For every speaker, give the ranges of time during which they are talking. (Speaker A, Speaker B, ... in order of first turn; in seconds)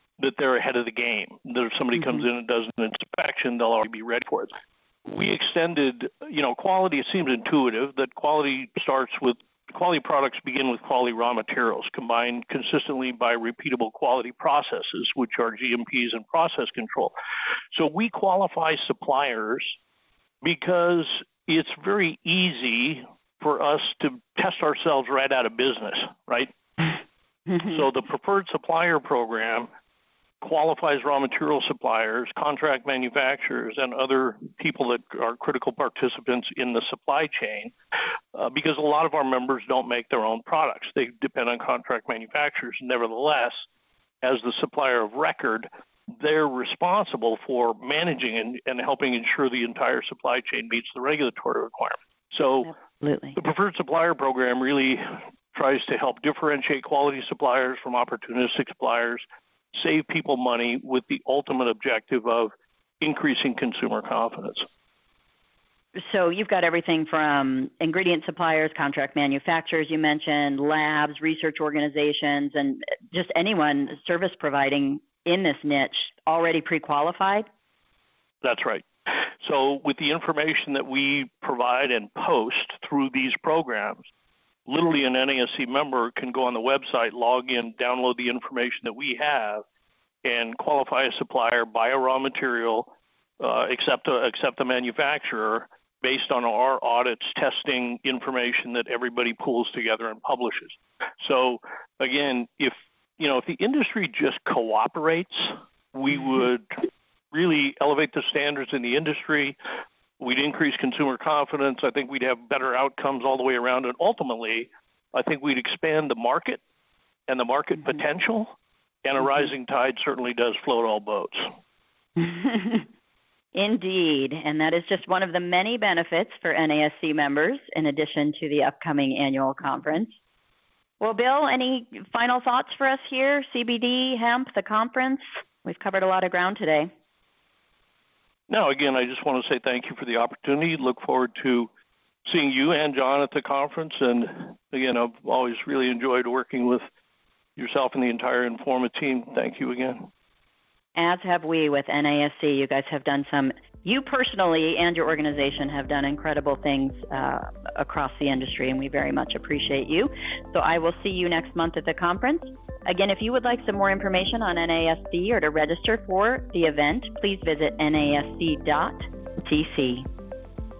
Speaker A: 0.2-4.5, 5.1-17.1, 17.7-19.8, 20.4-26.5, 27.6-29.7, 30.4-37.7, 38.3-43.6, 44.2-45.7, 46.2-52.7, 53.4-64.7, 78.4-78.9, 79.4-84.0, 84.7-89.6, 90.2-106.8, 107.3-109.6, 110.2-116.6, 117.3-121.5, 138.5-141.7, 142.2-146.9, 147.6-150.1
Speaker B: 52.6-53.4, 66.0-77.5, 122.2-122.9, 123.5-130.2, 131.0-136.9, 150.9-170.1